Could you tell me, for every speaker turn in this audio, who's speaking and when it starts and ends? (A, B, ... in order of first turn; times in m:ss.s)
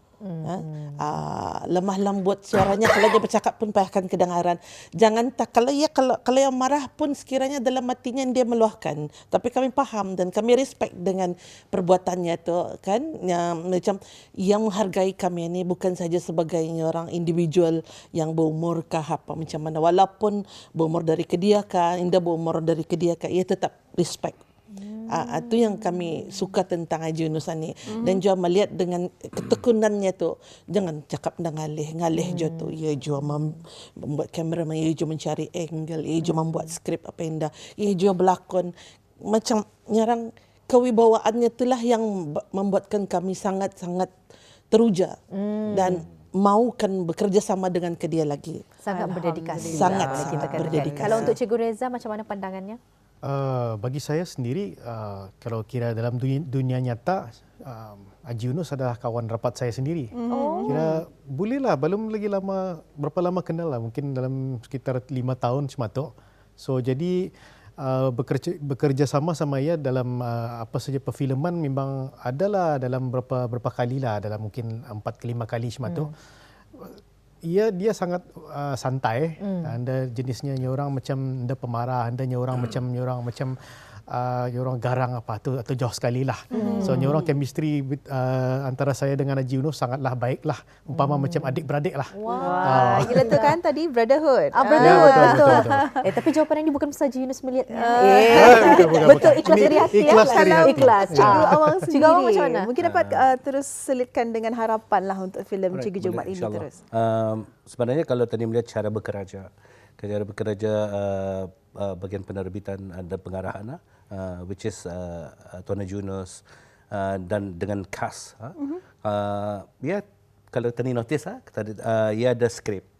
0:00.2-0:01.0 A
0:00.4-0:24.4 B
0:24.8-0:25.9 A
0:25.1-0:38.7 B
0:27.9-0:28.2 C
0:32.2-0:32.8 A
0:36.2-0:36.7 A
0:39.3-0:44.1 B
0:44.7-0:45.2 B
0:45.3-0:46.0 A
0:45.7-0:48.6 B
0:48.8-0:52.8 A
0:48.9-0:51.3 C
0:49.5-0:51.4 B
0:53.2-1:00.1 D
1:00.2-1:00.9 C
1:00.3-1:00.9 A
1:00.6-1:16.1 D
1:15.8-1:16.1 A
1:16.8-1:33.4 D
1:19.4-1:19.7 A
1:26.5-1:27.0 C
1:26.6-1:27.3 A
1:31.0-1:31.6 A
1:32.2-1:33.6 A
1:32.3-1:36.1 C
1:34.5-1:42.7 A
1:34.8-1:35.8 D
1:37.7-1:46.8 C
1:38.3-1:41.9 D
1:42.8-1:43.4 E
1:45.7-1:49.5 E
1:50.0-2:02.9 E